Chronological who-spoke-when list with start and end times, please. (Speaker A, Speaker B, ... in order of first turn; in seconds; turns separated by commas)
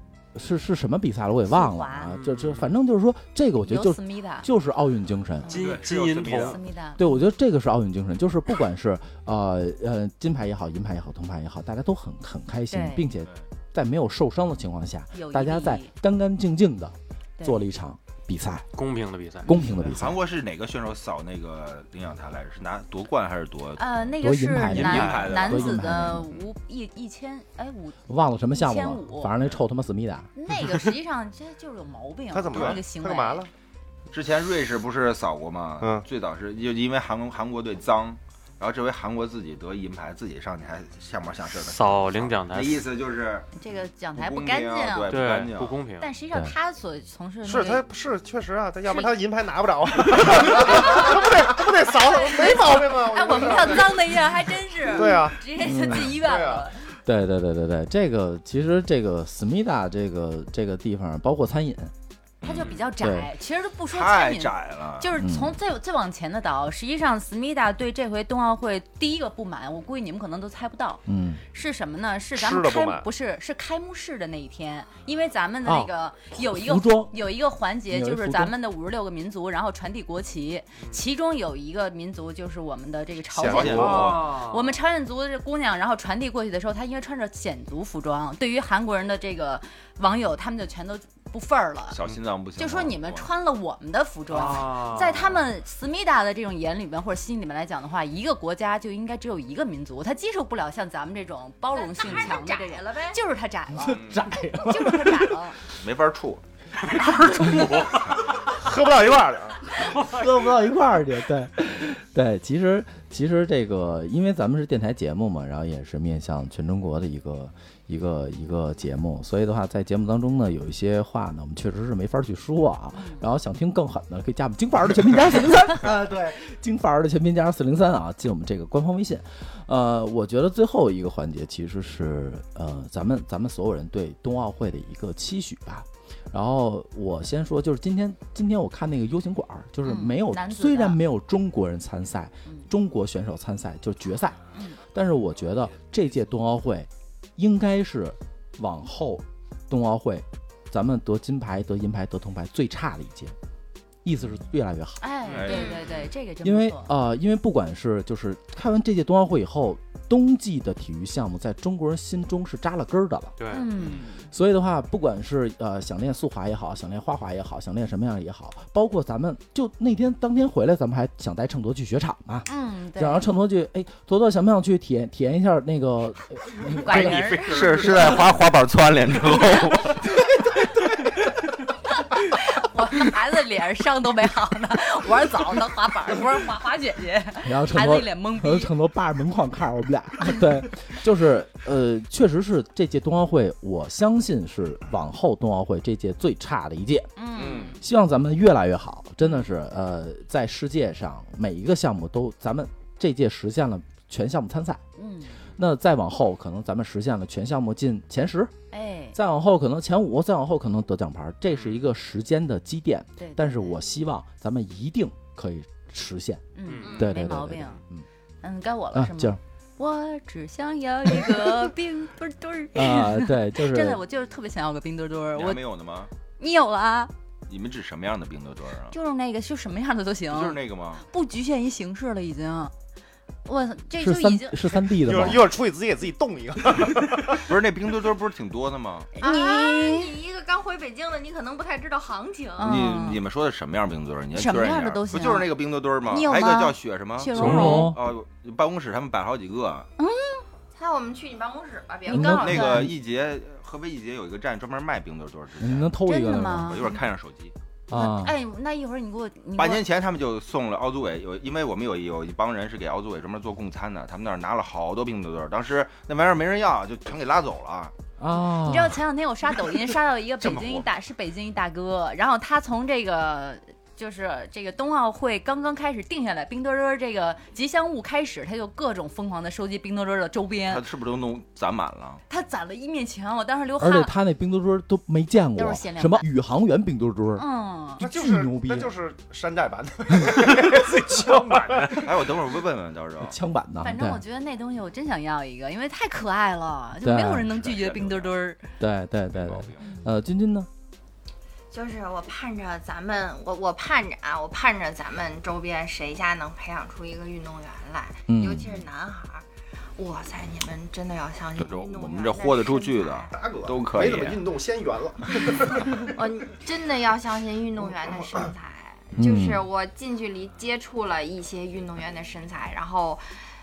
Speaker A: 0.3-5.5, Speaker B: 1.5-2.1, Speaker C: 2.2-2.7, Speaker B: 3.6-4.5, Speaker B: 5.4-5.8, Speaker C: 5.5-6.6, Speaker D: 5.5-6.6, Speaker B: 6.4-7.2, Speaker A: 7.0-18.7, Speaker B: 12.7-13.1, Speaker B: 15.1-15.9, Speaker C: 18.7-19.5, Speaker A: 19.4-20.2, Speaker D: 19.8-24.1, Speaker B: 23.8-29.3, Speaker A: 24.2-26.3, Speaker D: 24.7-25.8, Speaker C: 24.9-25.2, Speaker A: 28.1-30.3, Speaker B: 30.4-33.5, Speaker E: 32.3-33.5, Speaker D: 32.5-32.8, Speaker D: 34.1-43.5, Speaker C: 41.5-42.9, Speaker B: 43.6-45.2, Speaker D: 44.2-45.8, Speaker C: 45.1-46.1, Speaker B: 46.0-47.9, Speaker E: 47.4-54.1, Speaker B: 48.9-49.1, Speaker B: 50.7-51.1, Speaker B: 51.9-56.9, Speaker E: 54.9-55.4, Speaker A: 55.6-56.2, Speaker E: 56.1-56.7, Speaker A: 57.0-61.9, Speaker D: 62.4-62.9, Speaker B: 62.4-92.0, Speaker A: 63.0-63.3, Speaker D: 63.9-65.1, Speaker A: 65.2-65.5, Speaker A: 71.1-71.4, Speaker E: 72.3-73.1, Speaker A: 75.7-77.1, Speaker A: 77.9-78.5, Speaker E: 83.4-84.1, Speaker D: 83.4-84.4, Speaker C: 83.7-84.6, Speaker D: 91.9-93.3, Speaker B: 92.6-105.6, Speaker C: 94.3-95.3, Speaker F: 101.7-103.2, Speaker A: 103.7-105.3, Speaker D: 103.8-104.3, Speaker D: 105.7-106.4, Speaker C: 106.8-108.4, Speaker E: 108.4-109.6, Speaker C: 109.8-110.5, Speaker A: 109.8-153.3, Speaker B: 122.9-123.2, Speaker B: 139.8-141.0, Speaker B: 144.5-144.8, Speaker A: 154.0-155.0, Speaker B: 155.0-156.9, Speaker D: 155.3-156.1, Speaker F: 155.5-155.9, Speaker A: 156.4-163.3, Speaker C: 163.4-163.7, Speaker B: 163.5-164.3, Speaker A: 164.3-177.2, Speaker B: 172.5-173.3, Speaker B: 176.7-177.9, Speaker C: 176.7-178.3, Speaker D: 176.9-180.1, Speaker B: 182.3-188.7, Speaker A: 187.4-197.2, Speaker B: 197.2-197.8, Speaker D: 197.3-197.8, Speaker A: 197.8-204.8, Speaker B: 199.2-199.5, Speaker B: 205.0-205.4, Speaker A: 205.6-208.5, Speaker B: 208.7-209.2, Speaker A: 209.1-218.1, Speaker B: 213.2-213.8, Speaker B: 216.6-217.8, Speaker C: 216.7-217.1, Speaker F: 216.8-217.1, Speaker B: 218.4-225.6, Speaker A: 218.9-219.4, Speaker A: 222.7-224.0, Speaker D: 225.3-226.1, Speaker B: 226.4-227.1, Speaker D: 227.5-229.0, Speaker B: 228.9-232.7, Speaker D: 230.3-231.1, Speaker B: 233.5-234.6, Speaker A: 234.0-235.5, Speaker E: 234.9-237.4, Speaker D: 237.3-239.1, Speaker B: 239.2-240.2, Speaker F: 239.2-242.8, Speaker B: 242.6-243.2, Speaker D: 242.6-249.9, Speaker B: 244.3-247.9, Speaker A: 247.3-248.1, Speaker B: 250.0-250.4, Speaker F: 250.7-252.5, Speaker A: 252.1-252.9, Speaker B: 252.1-252.9, Speaker D: 252.3-255.9, Speaker A: 255.6-256.9, Speaker B: 256.1-257.0, Speaker D: 256.6-257.5, Speaker A: 257.9-258.4, Speaker B: 257.9-259.8, Speaker D: 259.6-267.9, Speaker A: 268.2-269.0, Speaker B: 268.3-280.8, Speaker D: 270.4-270.9, Speaker D: 280.6-282.2, Speaker B: 282.3-284.1, Speaker A: 283.8-287.5, Speaker B: 285.6-286.3, Speaker B: 287.4-288.1, Speaker A: 288.0-288.9, Speaker E: 288.0-292.1, Speaker C: 291.1-291.9, Speaker D: 291.8-293.4, Speaker A: 293.2-294.2, Speaker B: 293.8-298.7, Speaker A: 297.0-297.5, Speaker D: 297.5-298.4, Speaker A: 298.8-300.7, Speaker D: 299.3-299.9, Speaker B: 299.8-300.1, Speaker F: 301.7-313.3, Speaker A: 308.3-308.9, Speaker D: 311.6-314.4, Speaker E: 313.3-316.1, Speaker F: 315.3-323.2, Speaker A: 319.2-319.6